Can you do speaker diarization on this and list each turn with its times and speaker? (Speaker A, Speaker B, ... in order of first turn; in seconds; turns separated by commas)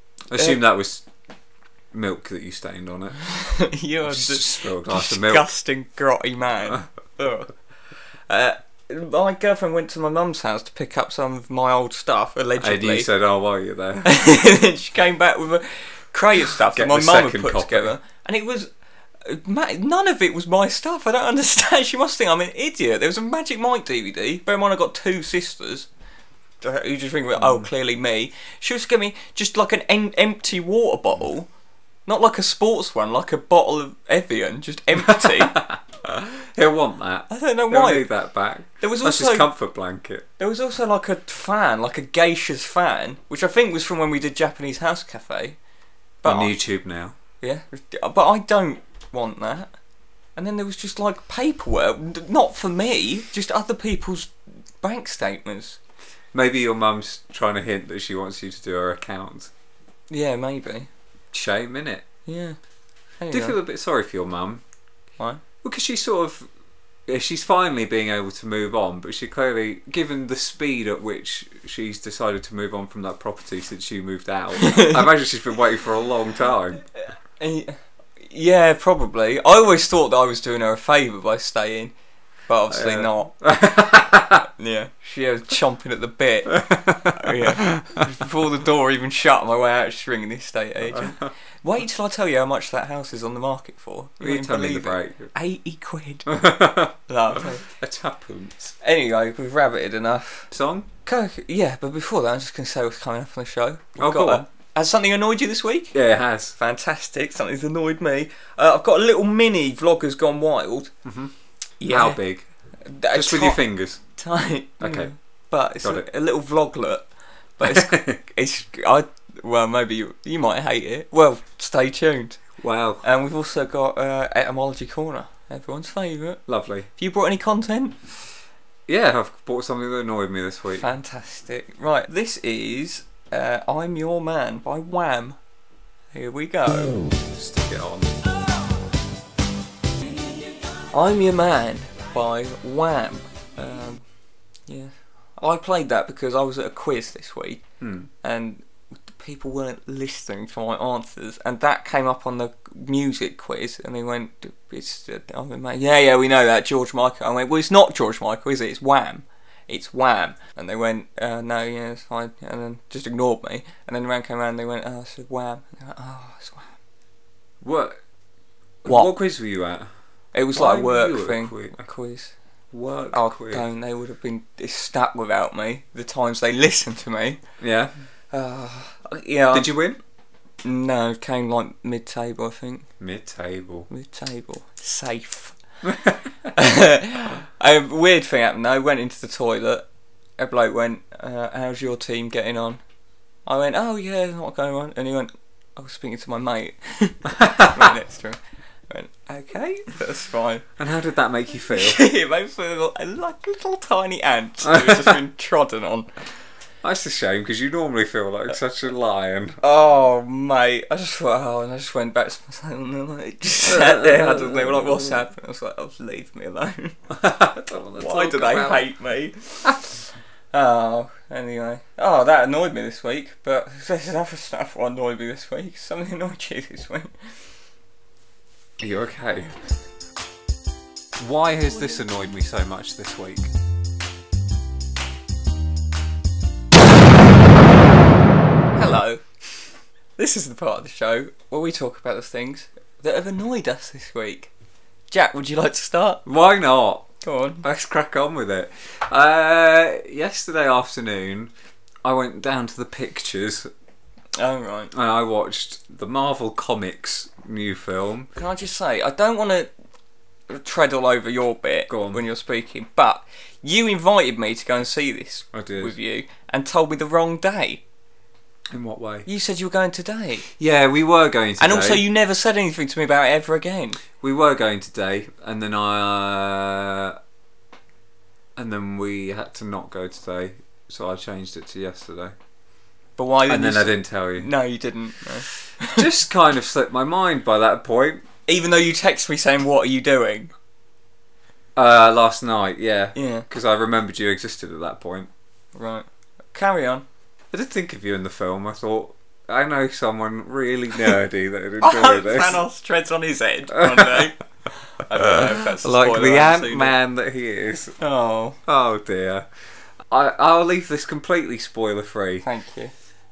Speaker A: 0.3-1.0, Speaker B: 0.3-0.6, Speaker A: 1.9-3.2, Speaker B: 3.2-7.5, Speaker A: 4.1-5.5, Speaker B: 8.3-13.1, Speaker A: 12.6-14.1, Speaker B: 14.0-18.7, Speaker A: 16.5-17.9, Speaker B: 19.2-25.9, Speaker B: 26.6-31.5, Speaker A: 27.4-27.7, Speaker B: 32.1-35.6, Speaker A: 35.0-40.3, Speaker B: 37.3-38.1, Speaker B: 38.8-39.5, Speaker B: 40.4-45.6, Speaker B: 46.2-46.5, Speaker A: 46.2-47.2, Speaker B: 47.4-49.7, Speaker B: 50.4-55.8, Speaker A: 56.3-59.5, Speaker B: 60.1-60.9, Speaker A: 61.3-62.0, Speaker B: 62.3-62.6, Speaker B: 63.2-63.6, Speaker A: 63.3-64.6, Speaker A: 65.6-66.5, Speaker A: 67.1-76.8, Speaker B: 74.6-75.1, Speaker B: 77.4-81.9, Speaker B: 82.5-83.3, Speaker A: 82.7-84.5, Speaker B: 84.4-96.3, Speaker A: 86.5-88.2, Speaker A: 94.2-95.3, Speaker A: 96.3-98.8, Speaker B: 97.1-97.7, Speaker B: 98.8-100.5, Speaker A: 100.5-100.9, Speaker B: 101.0-105.9, Speaker A: 104.0-104.5, Speaker A: 105.9-106.6, Speaker B: 106.6-110.9, Speaker A: 111.0-112.5, Speaker B: 111.8-112.2, Speaker B: 112.8-113.6, Speaker A: 113.1-114.0, Speaker B: 114.2-117.1, Speaker A: 114.8-115.1, Speaker A: 115.8-116.1, Speaker B: 117.6-122.4, Speaker A: 117.6-118.2, Speaker A: 122.6-123.0, Speaker B: 123.0-126.4, Speaker A: 126.5-126.9, Speaker B: 127.0-128.0, Speaker A: 128.9-130.9, Speaker B: 130.7-135.4, Speaker B: 136.1-137.0, Speaker A: 137.0-138.4, Speaker B: 140.9-144.0, Speaker B: 144.7-147.6, Speaker A: 147.8-148.1, Speaker B: 148.2-166.7, Speaker A: 167.6-168.0, Speaker B: 168.8-169.1, Speaker A: 168.8-169.9, Speaker B: 170.3-172.3, Speaker A: 170.5-171.9, Speaker A: 172.7-173.7, Speaker B: 173.1-177.4, Speaker A: 177.6-177.9, Speaker B: 178.3-179.8, Speaker A: 179.5-180.0, Speaker B: 180.6-182.9, Speaker A: 183.0-183.9, Speaker B: 183.9-185.6, Speaker A: 185.8-186.5, Speaker B: 186.6-189.8, Speaker B: 190.4-192.8, Speaker B: 193.5-198.4, Speaker A: 197.4-197.9, Speaker B: 198.9-200.7, Speaker A: 200.8-202.1, Speaker B: 201.8-206.1, Speaker A: 204.6-205.2, Speaker A: 206.8-209.6, Speaker B: 209.6-217.0, Speaker A: 213.7-215.0, Speaker A: 217.1-218.9, Speaker B: 218.0-219.7, Speaker B: 220.5-227.1, Speaker A: 228.8-229.6, Speaker A: 231.2-233.5, Speaker B: 238.8-239.2, Speaker B: 240.2-244.5, Speaker B: 245.1-246.2, Speaker A: 246.2-251.5, Speaker B: 247.2-247.6, Speaker A: 252.0-253.7, Speaker B: 254.4-254.9, Speaker A: 254.9-258.3, Speaker B: 258.4-259.7, Speaker B: 260.5-267.8, Speaker A: 261.9-262.2, Speaker A: 265.5-266.0, Speaker A: 268.7-269.3, Speaker B: 269.3-270.5, Speaker A: 270.6-272.1, Speaker B: 271.6-274.0, Speaker A: 274.2-277.2, Speaker A: 278.6-282.3, Speaker B: 283.2-286.1, Speaker A: 283.5-284.5, Speaker A: 285.9-288.3, Speaker B: 288.5-290.5, Speaker A: 291.8-295.3, Speaker B: 293.1-293.5, Speaker B: 295.8-297.0, Speaker A: 297.5-302.6, Speaker B: 301.8-306.9, Speaker A: 303.7-304.3, Speaker A: 305.2-307.9, Speaker B: 308.0-308.6, Speaker A: 308.7-309.5, Speaker A: 310.1-312.5, Speaker B: 312.4-312.9